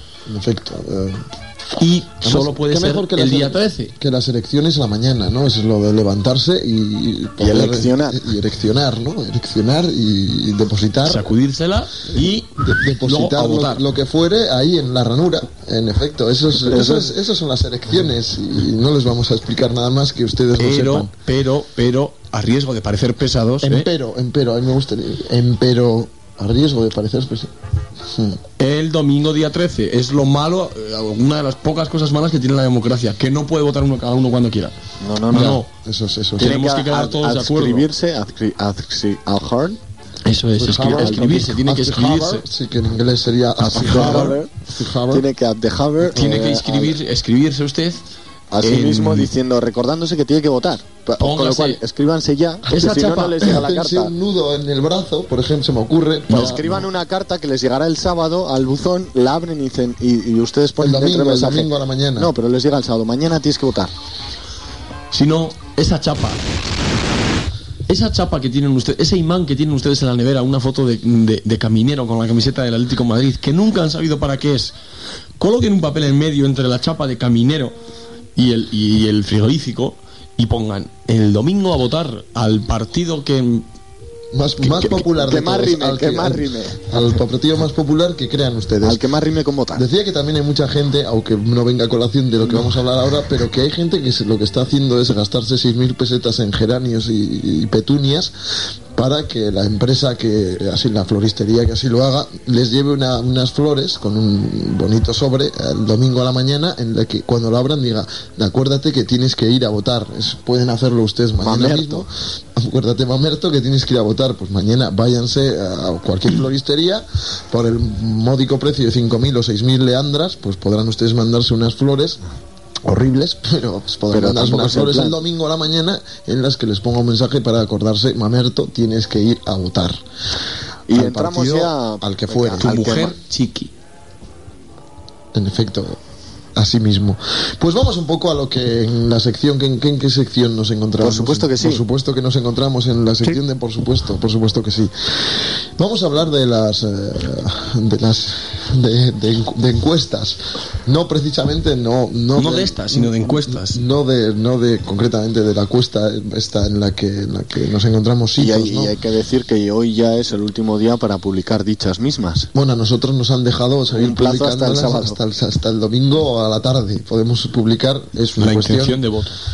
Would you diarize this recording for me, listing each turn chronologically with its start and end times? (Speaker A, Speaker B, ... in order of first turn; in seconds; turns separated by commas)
Speaker A: 0.3-1.2, Speaker B: 1.8-3.9, Speaker A: 2.2-11.3, Speaker C: 7.4-8.2, Speaker B: 11.0-13.8, Speaker A: 12.6-21.1, Speaker C: 16.7-17.1, Speaker B: 20.6-23.9, Speaker A: 23.6-27.5, Speaker A: 28.1-28.4, Speaker B: 28.6-34.7, Speaker C: 35.0-35.6, Speaker B: 35.3-35.7, Speaker A: 35.4-36.5, Speaker B: 36.4-37.9, Speaker C: 36.4-39.8, Speaker B: 40.2-42.4, Speaker A: 40.5-45.2, Speaker C: 40.9-41.3, Speaker C: 43.6-44.5, Speaker B: 43.8-44.4, Speaker C: 45.1-46.9, Speaker B: 46.1-48.0, Speaker C: 48.5-54.1, Speaker B: 48.6-49.3, Speaker B: 51.2-51.8, Speaker B: 52.7-53.5, Speaker A: 53.4-56.9, Speaker C: 56.3-63.9, Speaker A: 60.8-62.3, Speaker B: 65.1-66.4, Speaker B: 67.9-74.7, Speaker B: 75.4-77.7, Speaker B: 78.3-83.7, Speaker A: 84.3-89.0, Speaker C: 84.8-87.2, Speaker C: 88.8-89.8, Speaker A: 89.7-98.3, Speaker A: 98.9-122.2, Speaker C: 111.4-112.0, Speaker A: 122.8-130.0, Speaker C: 124.1-125.2, Speaker C: 130.9-133.1, Speaker A: 130.9-133.0, Speaker B: 132.6-133.7, Speaker A: 135.3-136.0, Speaker A: 136.6-158.9, Speaker C: 141.0-141.8, Speaker B: 152.3-153.8, Speaker C: 158.4-162.5, Speaker A: 162.5-169.0, Speaker C: 163.9-165.2, Speaker B: 168.4-169.4